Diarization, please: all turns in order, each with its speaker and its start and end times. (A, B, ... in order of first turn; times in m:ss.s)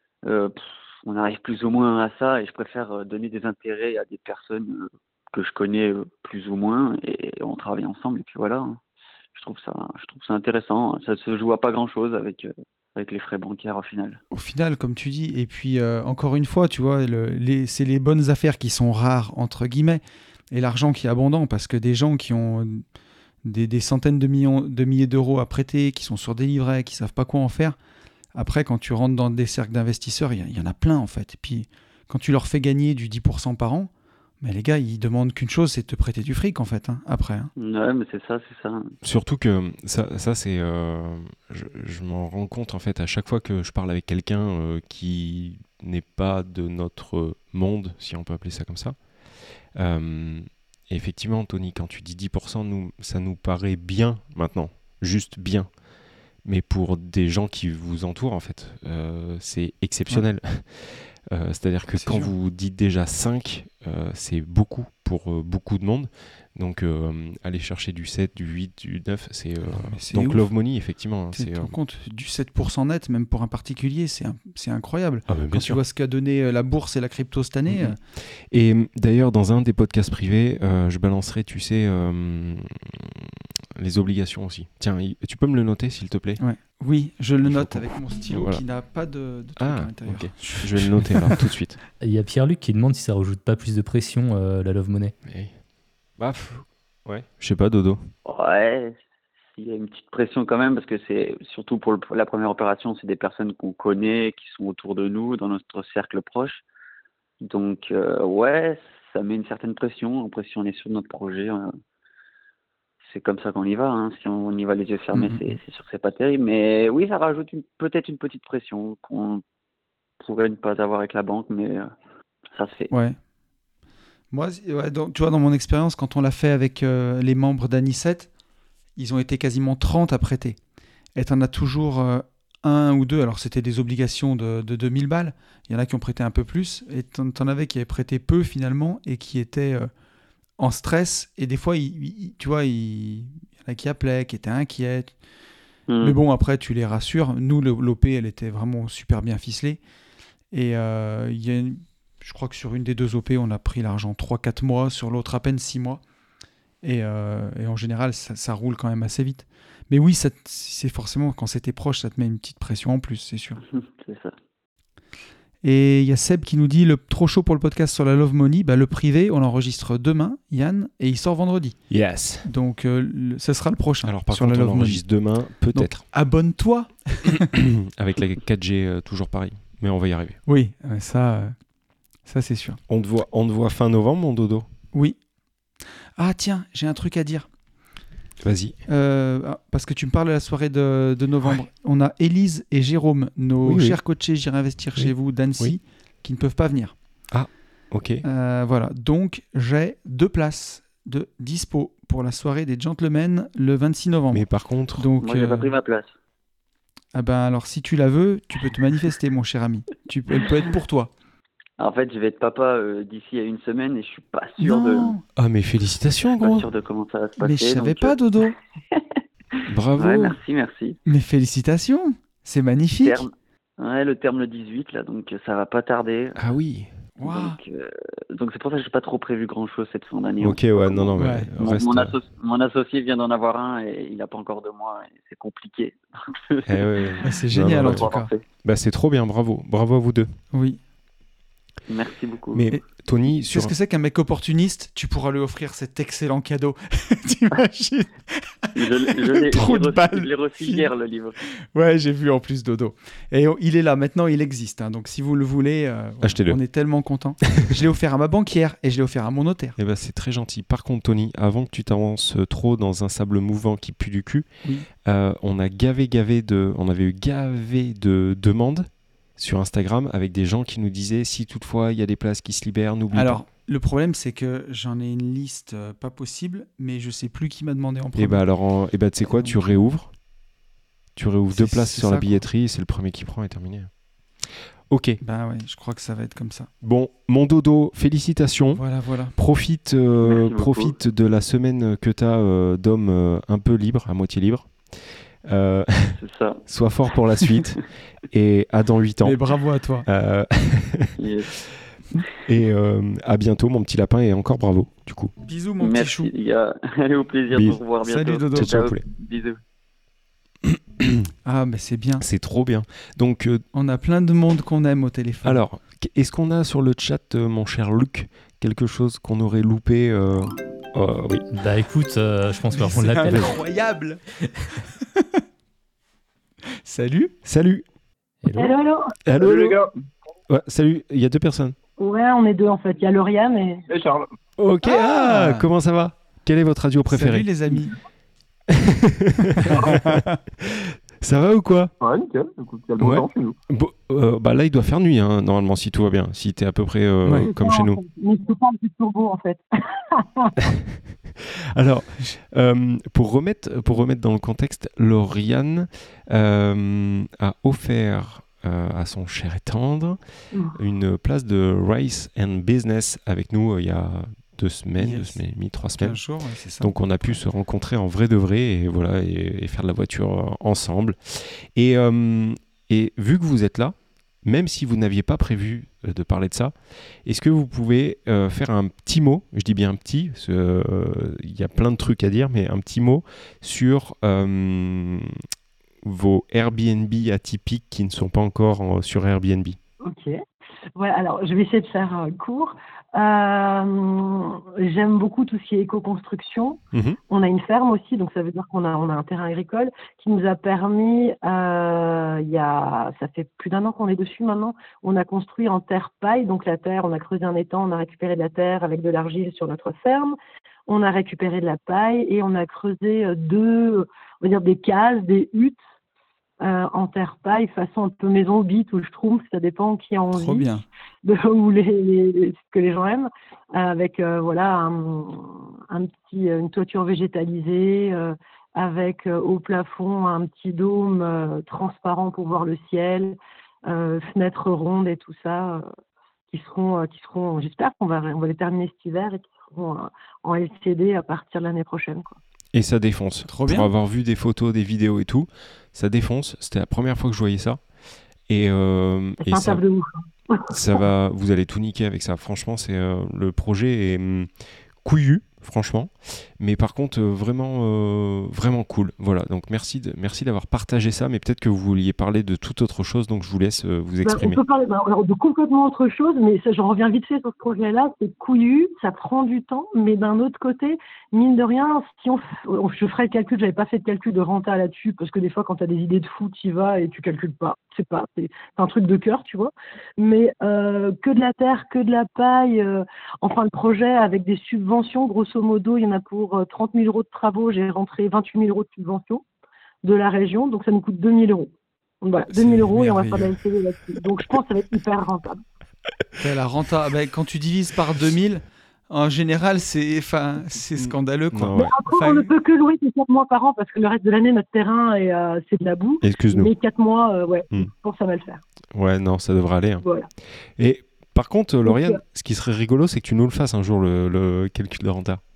0:00.2-0:08.8 A
0:09.3-0:14.2 A
0:14.3-0:22.8 B
0:23.4-0:27.8 B
0:28.3-0:33.9 B
0:34.4-0:37.5 B
0:37.6-0:38.9 A
0:39.0-0:49.0 C
0:49.8-0:55.7 C
0:56.4-1:11.7 C
1:01.9-1:02.3 B
1:09.7-1:10.5 B
1:11.3-1:18.0 B
1:15.3-1:15.8 C
1:17.7-1:26.4 C
1:26.4-1:31.4 B
1:27.4-1:28.6 C
1:29.6-1:31.8 C
1:32.0-1:35.1 D
1:35.2-1:35.5 C
1:36.2-1:38.1 C
1:38.2-1:39.0 A
1:39.6-1:46.6 A
1:47.4-1:51.7 A
1:53.0-1:59.4 A
1:55.1-1:55.6 B
2:00.2-2:01.9 A
2:02.5-2:02.9 A
2:02.9-2:03.2 B
2:04.3-2:08.3 B
2:09.0-2:10.6 B
2:11.2-2:19.9 B
2:20.6-2:25.1 B
2:25.9-2:26.2 A
2:26.0-2:29.8 B
2:30.5-2:36.0 B
2:36.8-2:43.6 B
2:43.7-2:44.3 A
2:45.6-2:51.9 B
2:51.9-2:52.5 C
2:52.4-2:55.0 B
2:54.0-2:56.0 C
2:55.7-2:57.5 B
2:57.4-3:00.4 C
3:00.4-3:01.5 B
3:02.2-3:02.8 B
3:02.9-3:04.7 C
3:04.9-3:05.2 B
3:06.2-3:07.5 B
3:08.4-3:08.8 C
3:08.9-3:16.9 B
3:13.6-3:14.0 C
3:15.0-3:15.8 C
3:17.3-3:18.2 C
3:18.2-3:25.7 B
3:24.3-3:25.1 C
3:25.2-3:26.1 A
3:27.1-3:31.1 B
3:31.8-3:35.1 A
3:34.6-3:35.2 B
3:35.4-3:36.6 C
3:36.4-3:38.2 A
3:37.4-3:38.5 B
3:38.9-3:39.2 A
3:39.7-3:40.4 C
3:40.0-3:41.0 A
3:41.0-3:43.2 B
3:43.0-3:46.4 A
3:46.4-3:46.9 C
3:47.2-3:47.6 B
3:47.2-3:58.4 A
3:50.4-3:52.1 C
3:51.2-3:51.5 B
3:56.7-3:58.1 C
3:57.2-3:58.3 B
3:58.6-4:00.3 C
4:00.5-4:00.8 B
4:01.9-4:02.7 A
4:02.5-4:03.7 C
4:03.4-4:10.8 B
4:08.7-4:11.4 A
4:11.7-4:19.8 B
4:16.2-4:16.6 C
4:19.8-4:24.5 C
4:25.0-4:33.4 C
4:33.1-4:38.5 B
4:38.2-4:40.1 C
4:39.2-4:39.6 B
4:41.2-4:43.9 C
4:41.5-4:42.4 B
4:44.4-4:45.2 C
4:45.2-4:46.7 B
4:46.8-4:48.8 C
4:48.7-4:49.3 B
4:49.3-4:59.4 C
4:50.2-4:51.0 A
4:56.2-4:56.6 A
4:59.2-5:00.1 B
5:00.0-5:01.1 C
5:01.2-5:01.5 A
5:02.4-5:05.3 C
5:05.4-5:06.3 B
5:05.8-5:09.6 A
5:07.5-5:07.8 C
5:08.0-5:08.8 B
5:08.5-5:09.0 C
5:10.6-5:11.3 C
5:11.4-5:12.2 B
5:12.2-5:13.6 C
5:13.7-5:15.6 B
5:15.4-5:21.4 C
5:21.5-5:23.6 D
5:22.7-5:24.2 B
5:23.2-5:23.5 C
5:25.0-5:25.4 B
5:26.8-5:27.3 B
5:27.4-5:27.8 C
5:28.4-5:28.7 D
5:28.5-5:29.1 E
5:29.2-5:29.8 C
5:29.4-5:29.9 F
5:30.5-5:31.7 C
5:32.0-5:33.8 E
5:33.9-5:34.3 F
5:34.6-5:37.5 C
5:34.9-5:35.7 B
5:37.1-5:37.9 B
5:38.7-5:41.9 C
5:39.6-5:40.4 B
5:42.0-5:43.6 F
5:43.0-5:48.0 C
5:47.2-5:47.5 B
5:47.4-5:50.5 E
5:51.7-6:00.2 C
6:00.5-6:00.8 E
6:00.7-6:06.2 C
6:05.0-6:05.4 B
6:06.0-6:07.4 B
6:06.8-6:16.7 C
6:17.2-6:25.3 C
6:26.0-6:29.8 C
6:30.0-6:30.4 E
6:31.0-6:36.8 E
6:37.3-6:55.8 E
6:56.6-7:00.7 E
7:00.3-7:00.8 B
7:01.2-7:15.8 E
7:16.5-7:22.4 E
7:22.7-7:27.8 C
7:23.5-7:23.9 B
7:28.5-7:29.8 C
7:29.4-7:31.0 E
7:30.7-7:34.5 C
7:35.0-7:44.6 C
7:44.2-8:09.4 E
8:10.0-8:11.7 E
8:12.2-8:15.6 E
8:12.5-8:13.6 B
8:16.4-8:22.5 B
8:21.0-8:21.9 C
8:21.7-8:28.6 E
8:26.2-8:26.7 C
8:28.9-8:30.0 C
8:30.0-8:30.3 E
8:30.8-8:35.4 C
8:31.8-8:32.2 E